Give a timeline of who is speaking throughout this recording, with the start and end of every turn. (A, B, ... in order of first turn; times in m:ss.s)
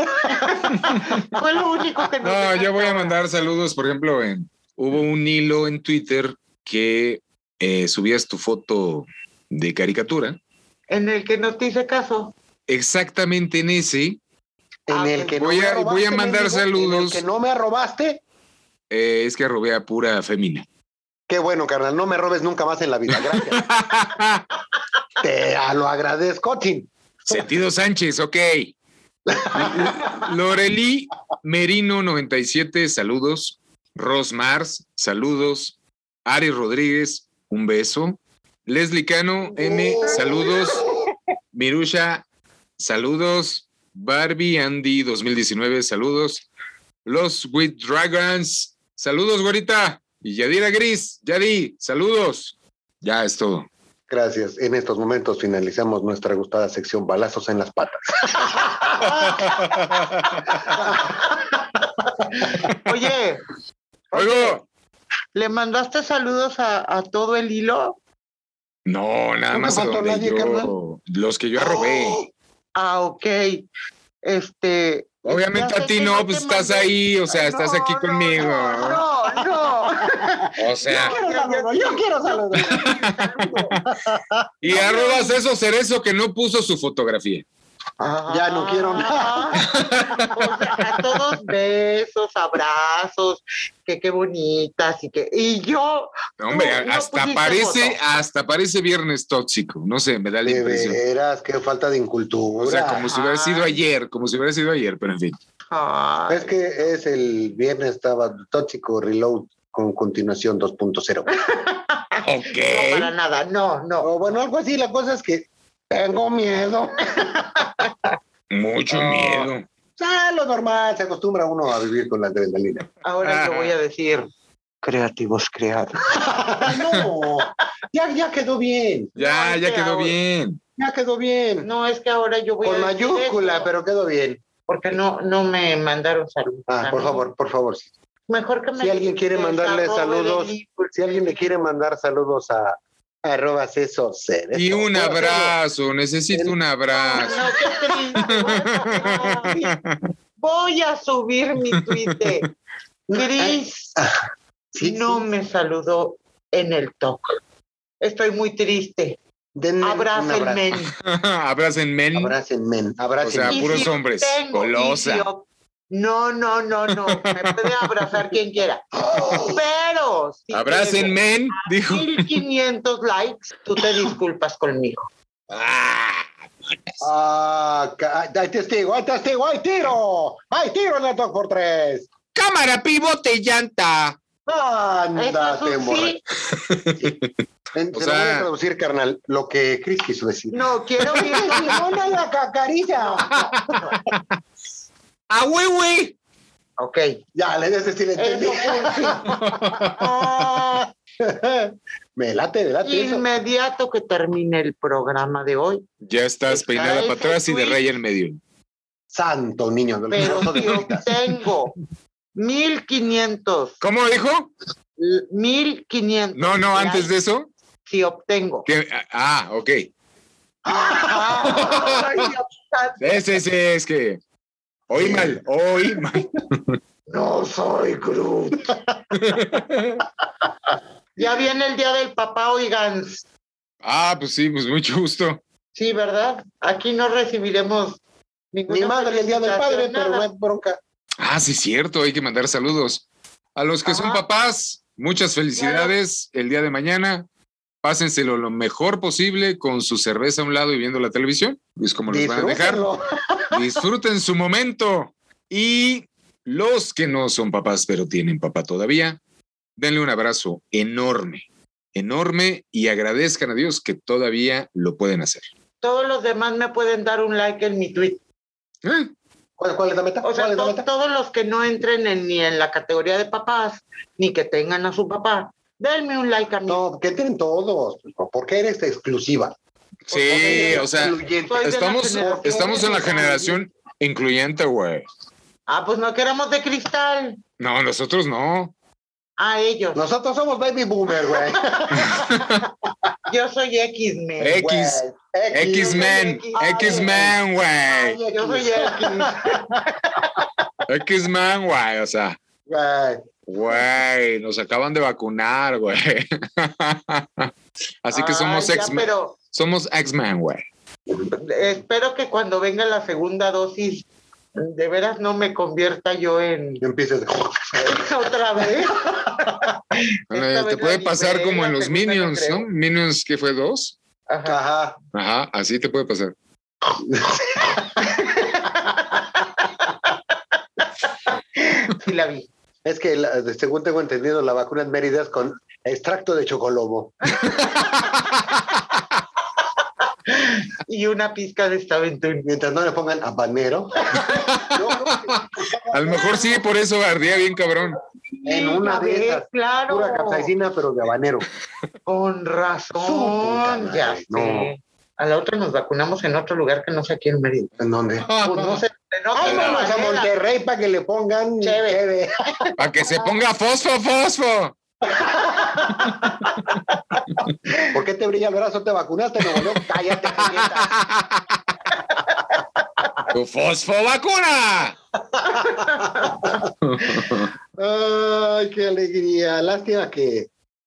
0:00.2-0:01.4 A
0:00.3-0:03.2 B
0:00.7-0:01.4 C
0:02.2-0:10.4 C
0:10.9-0:12.3 B
0:12.7-0:14.2 C
0:14.9-0:18.2 A
0:14.9-0:15.4 B
0:15.4-0:17.2 C
0:18.9-0:20.7 C
0:21.3-0:23.6 A
0:23.1-0:24.4 C
0:25.2-0:27.5 A
0:27.3-0:28.7 C
0:29.3-0:30.2 A
0:29.5-0:40.8 C
0:39.6-0:40.7 A
0:39.7-0:40.6 B
0:41.5-0:42.2 C
0:42.8-0:46.4 C
0:47.1-0:53.7 C
0:54.1-0:59.7 A
0:58.9-0:59.4 B
0:59.3-1:00.8 C
1:00.7-1:01.2 A
1:02.3-1:03.4 B
1:04.1-1:04.6 B
1:04.1-1:04.6 C
1:05.3-1:08.0 B
1:08.9-1:12.2 C
1:09.5-1:10.7 A
1:11.6-1:12.2 A
1:12.8-1:13.7 B
1:14.2-1:23.8 B
1:15.3-1:19.0 C
1:19.4-1:19.7 A
1:20.2-1:24.7 A
1:20.6-1:21.2 C
1:22.8-1:23.0 C
1:24.6-1:27.4 C
1:24.7-1:25.4 B
1:28.0-1:38.0 B
1:28.3-1:30.4 A
1:29.6-1:30.3 C
1:36.4-1:41.0 C
1:40.4-1:43.1 A
1:42.6-1:45.4 C
1:43.1-1:43.8 B
1:45.7-1:46.5 B
1:46.3-1:51.3 A
1:51.3-1:54.2 B
1:52.2-1:53.1 C
1:54.0-1:57.7 A
1:57.6-1:57.9 B
1:58.5-1:59.6 C
1:58.9-1:59.5 B
2:00.0-2:02.9 A
2:03.0-2:04.3 B
2:03.2-2:03.7 C
2:04.8-2:06.4 B
2:06.1-2:09.1 A
2:06.7-2:07.0 C
2:09.2-2:10.2 B
2:09.2-2:10.6 C
2:10.8-2:11.7 A
2:11.6-2:13.7 B
2:12.6-2:14.4 A
2:14.7-2:17.3 B
2:16.7-2:17.9 A
2:18.3-2:21.7 B
2:18.8-2:25.6 A
2:24.5-2:27.5 C
2:26.3-2:26.6 A
2:26.9-2:29.8 B
2:27.1-2:28.5 A
2:28.2-2:30.0 C
2:30.4-2:32.5 B
2:33.1-2:34.1 A
2:33.1-2:34.0 B
2:34.7-2:35.3 A
2:34.8-2:37.2 B
2:38.0-2:39.2 B
2:39.6-2:40.6 A
2:39.8-2:40.9 B
2:41.0-2:42.4 C
2:42.2-2:43.9 A
2:43.2-2:45.3 C
2:43.5-2:55.1 B
2:46.9-2:47.9 C
2:49.0-2:49.6 A
2:50.5-2:52.4 C
2:55.5-2:56.3 C
2:57.0-3:02.1 A
3:02.4-3:04.2 C
3:04.5-3:06.2 A
3:05.2-3:06.2 B
3:06.5-3:07.3 C
3:07.7-3:13.7 A
3:08.0-3:08.5 C
3:10.5-3:12.1 B
3:13.2-3:14.2 C
3:15.3-3:16.2 C
3:16.8-3:17.1 B
3:17.4-3:23.3 A
3:18.2-3:19.4 B
3:19.4-3:20.1 C
3:22.8-3:25.9 B
3:26.0-3:28.4 C
3:26.5-3:27.8 B
3:29.1-3:31.1 A
3:30.1-3:31.7 B
3:30.2-3:30.8 C
3:32.4-3:33.8 B
3:33.8-3:34.5 C
3:35.0-3:37.1 B
3:36.4-3:37.5 C
3:37.9-3:38.7 B
3:38.7-3:39.9 C
3:40.7-3:43.2 B
3:40.8-3:41.8 A
3:41.4-3:42.2 C
3:43.0-3:44.2 C
3:44.9-3:46.8 C
3:45.0-3:45.4 A
3:47.1-3:48.8 B
3:49.2-3:50.0 C
3:51.2-3:53.2 B
3:53.8-3:55.4 C
3:55.8-3:58.0 B
3:58.5-4:00.3 B
3:58.7-4:00.8 A
4:01.2-4:03.0 C
4:03.6-4:07.3 C
4:03.8-4:04.2 B
4:05.6-4:06.0 B
4:07.8-4:12.8 C
4:12.1-4:13.1 A
4:13.5-4:19.2 C
4:19.8-4:25.5 C
4:25.8-4:28.2 B
4:28.8-4:29.1 C
4:29.6-4:30.9 A
4:30.2-4:36.8 B
4:36.7-4:39.6 A
4:40.1-4:43.6 B
4:40.1-4:45.0 C
4:40.3-4:42.6 A
4:45.7-4:47.4 B
4:47.6-4:48.7 C
4:49.4-4:50.0 B
4:50.0-4:52.7 A
4:51.9-4:52.6 C
4:53.3-4:54.6 B
4:54.4-4:58.2 C
4:54.6-4:56.2 A
4:55.7-4:57.3 B
4:56.7-4:57.4 A
4:57.9-4:59.9 A
4:58.3-5:00.4 B
5:00.9-5:02.4 C
5:02.7-5:03.3 A
5:03.5-5:07.5 C
5:08.0-5:10.7 C
5:08.1-5:09.4 B
5:11.4-5:16.8 B
5:16.8-5:17.8 A
5:17.8-5:19.7 B
5:20.3-5:22.7 B
5:20.3-5:24.0 C
5:24.3-5:24.6 B
5:24.4-5:25.0 A
5:25.1-5:26.3 C
5:27.0-5:28.2 A
5:28.0-5:30.2 B
5:31.6-5:32.5 B
5:32.8-5:37.3 A
5:37.4-5:37.8 B
5:37.4-5:38.6 C
5:40.3-5:42.5 B
5:42.4-5:46.4 A
5:44.1-5:44.5 B
5:44.2-5:48.0 C
5:48.4-5:50.5 B
5:48.5-5:51.5 A
5:52.1-5:57.7 B
5:53.0-5:54.7 A
5:57.8-5:58.8 A
5:58.2-5:58.8 C
5:58.4-6:00.3 B
5:59.4-6:02.6 A
5:59.4-5:59.9 C
6:01.6-6:02.0 B
6:02.8-6:04.8 C
6:05.0-6:06.1 A
6:07.9-6:11.0 A
6:10.4-6:11.6 C
6:12.1-6:13.2 B
6:13.3-6:15.0 C
6:15.4-6:16.4 B
6:15.6-6:16.7 A
6:16.8-6:17.5 C
6:17.8-6:20.5 A